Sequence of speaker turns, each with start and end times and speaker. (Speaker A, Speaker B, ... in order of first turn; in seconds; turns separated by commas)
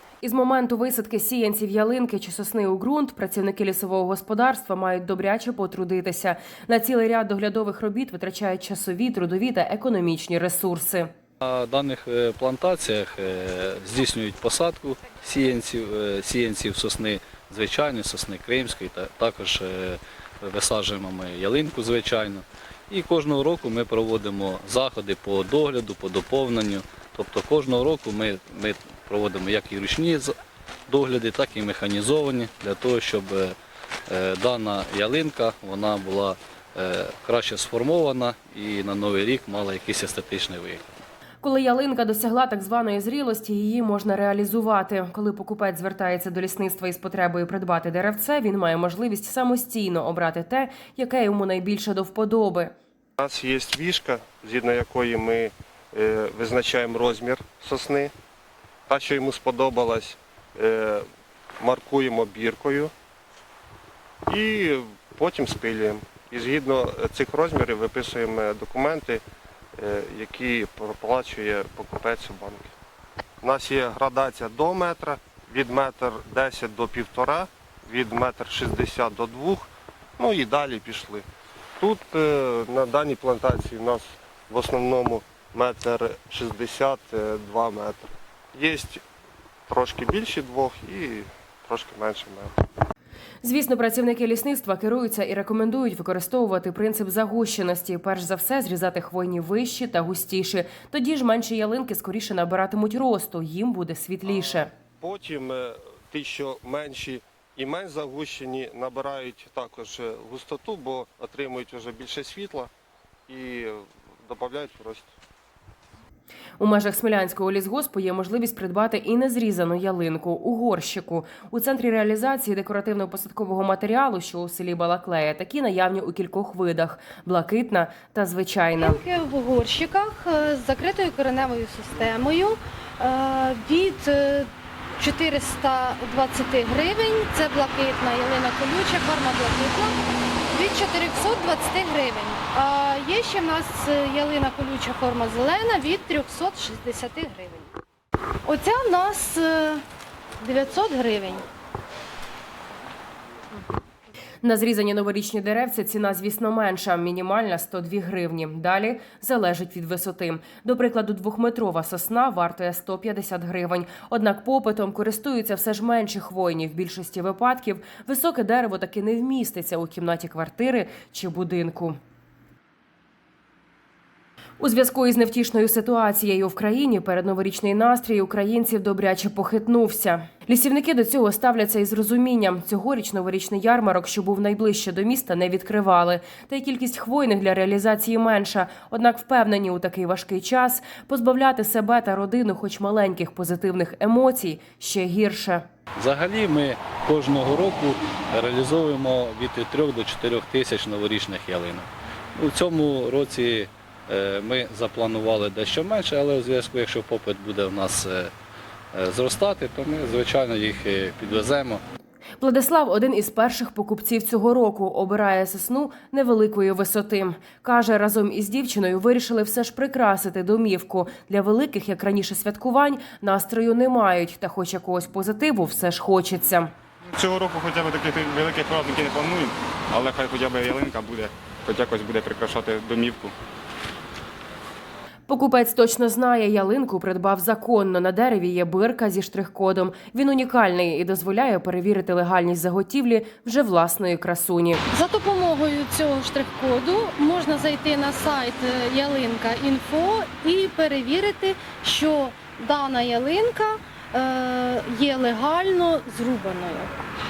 Speaker A: 0.2-11.1, Speaker B: 11.4-30.3, Speaker B: 30.9-33.5, Speaker B: 34.1-40.8, Speaker A: 41.4-52.7, Speaker C: 53.2-58.1, Speaker C: 58.9-61.0, Speaker C: 61.6-62.9, Speaker C: 64.3-69.2, Speaker C: 69.8-72.7, Speaker C: 73.4-81.2, Speaker C: 81.8-89.0, Speaker C: 89.7-92.5, Speaker A: 93.4-104.7, Speaker C: 104.3-112.7, Speaker C: 113.3-115.1, Speaker A: 116.6-129.0, Speaker D: 128.8-139.9, Speaker D: 140.5-147.7, Speaker D: 148.4-149.8, Speaker D: 150.4-151.5, Speaker A: 154.4-172.0, Speaker A: 174.6-195.6, Speaker B: 195.9-208.3, Speaker B: 208.9-211.8, Speaker A: 212.4-226.7, Speaker E: 227.1-233.3, Speaker A: 235.3-244.8, Speaker D: 244.9-257.0